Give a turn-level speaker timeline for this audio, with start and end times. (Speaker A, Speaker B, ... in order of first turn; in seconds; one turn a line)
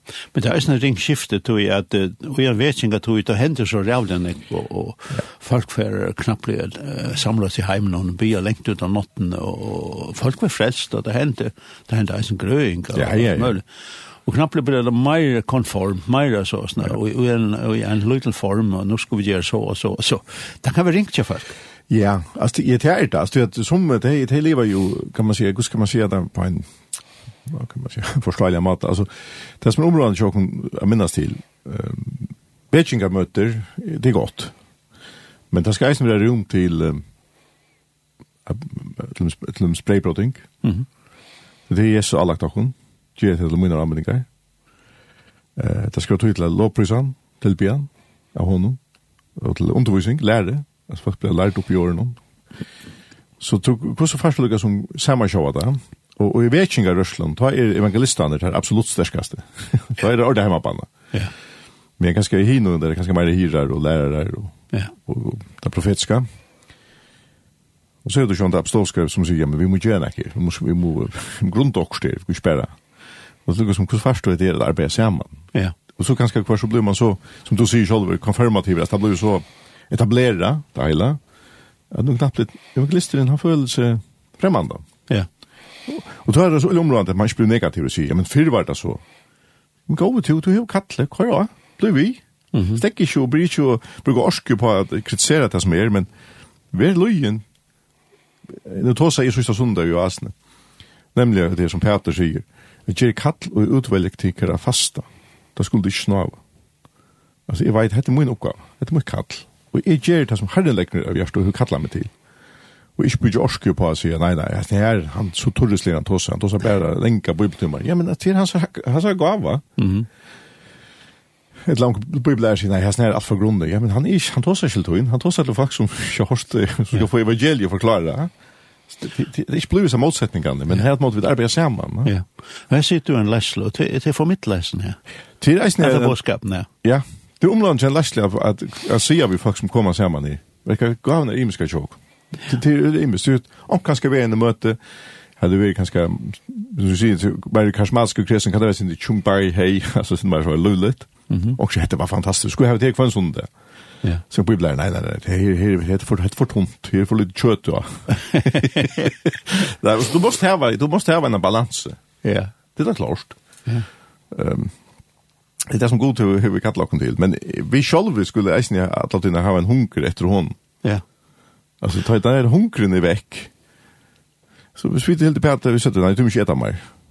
Speaker A: 0.3-13.7
Speaker B: 12.9-13.6
Speaker A: 14.2-21.6
Speaker B: 21.9-26.7
Speaker B: 27.4-34.5
Speaker B: 35.5-37.0
Speaker B: 38.5-40.5
Speaker B: 41.7-44.2
Speaker B: 45.5-48.8
Speaker B: 49.4-52.2
Speaker B: 53.4-60.9
Speaker B: 62.0-66.3
Speaker B: 68.0-72.7
Speaker B: 73.5-75.4
Speaker B: 76.0-81.2
Speaker B: 81.9-84.8
Speaker B: 85.8-89.0
Speaker B: 89.9-96.1
Speaker A: 92.5-92.8
Speaker B: 96.7-97.4
Speaker B: 98.5-100.3
Speaker B: 101.1-106.4
Speaker B: 107.5-112.1
Speaker B: 113.0-119.7
Speaker A: 119.8-120.1
Speaker B: 121.6-128.3
Speaker B: 128.9-132.1
Speaker A: 132.0-135.0
Speaker B: 135.4-136.2
Speaker A: 135.8-136.7
Speaker B: 136.8-144.8
Speaker B: 145.4-153.5
Speaker A: 151.3-151.6
Speaker B: 154.3-162.0
Speaker A: 158.3-159.0
Speaker A: 162.2-162.5
Speaker B: 162.7-163.4
Speaker B: 164.3-164.7
Speaker B: 165.7-170.6
Speaker B: 171.8-173.5
Speaker B: 174.7-176.8